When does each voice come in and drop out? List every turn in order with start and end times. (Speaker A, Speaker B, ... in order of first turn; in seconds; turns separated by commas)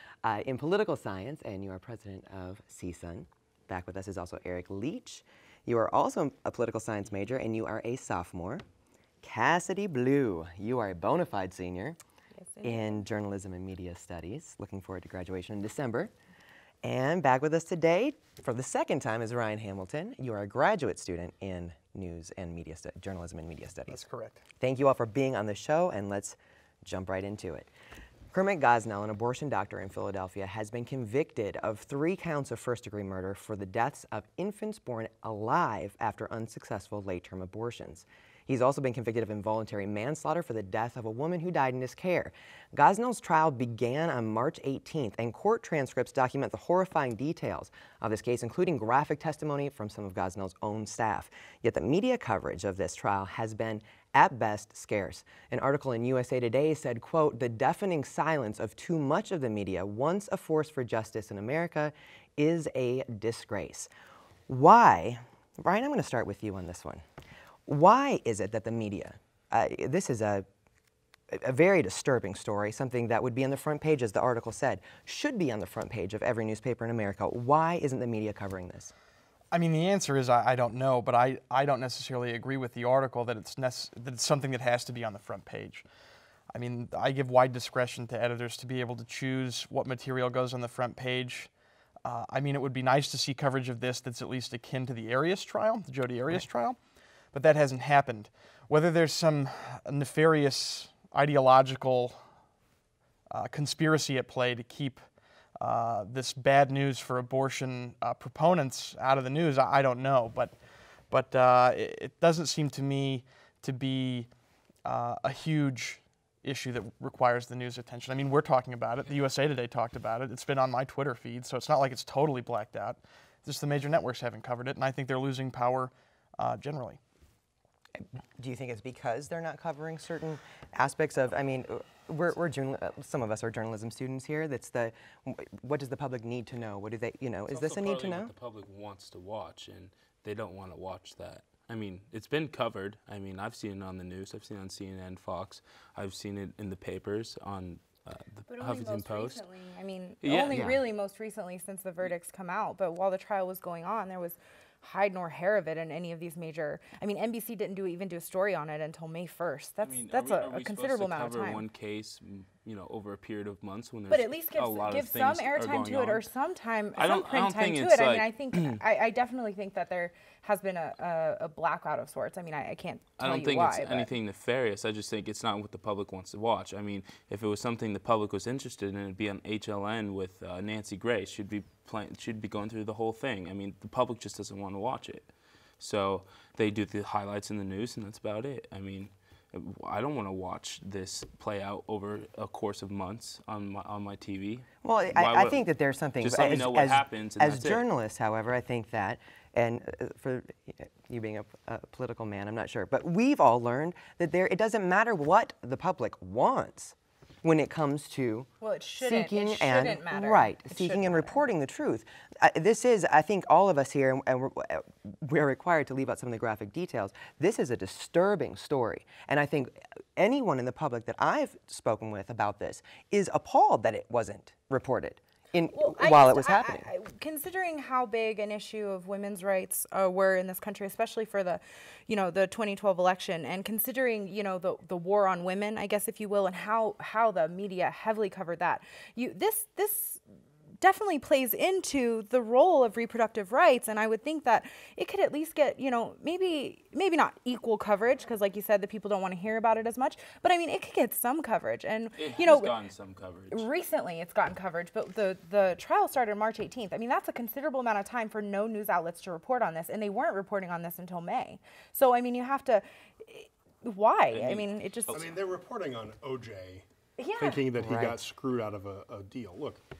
Speaker A: 0.2-8.6, Speaker A: 9.2-12.0, Speaker B: 12.4-12.9, Speaker A: 12.6-16.1, Speaker A: 16.8-24.0, Speaker C: 23.9-24.4, Speaker A: 24.6-27.7, Speaker A: 28.3-63.9, Speaker A: 64.5-67.0, Speaker A: 67.7-70.5, Speaker A: 71.3-78.9, Speaker C: 79.5-85.8, Speaker C: 86.5-91.5, Speaker C: 92.0-96.8, Speaker C: 97.3-102.2, Speaker C: 103.3-105.0, Speaker C: 105.6-110.5, Speaker C: 111.1-114.3, Speaker C: 114.8-127.0, Speaker A: 128.0-138.3, Speaker D: 137.5-149.4, Speaker B: 148.5-161.7, Speaker D: 150.2-150.8, Speaker A: 150.5-150.8, Speaker D: 159.8-166.2, Speaker B: 164.1-174.1, Speaker D: 166.9-168.8, Speaker D: 173.2-185.3, Speaker D: 185.8-195.6, Speaker A: 194.8-226.8, Speaker D: 196.2-197.8, Speaker B: 208.6-211.3, Speaker B: 225.7-240.2, Speaker B: 240.8-252.8, Speaker D: 252.2-253.7, Speaker B: 253.5-265.3, Speaker D: 264.3-265.2, Speaker E: 265.1-266.8, Speaker B: 267.2-267.7, Speaker E: 267.4-269.8, Speaker A: 267.8-268.2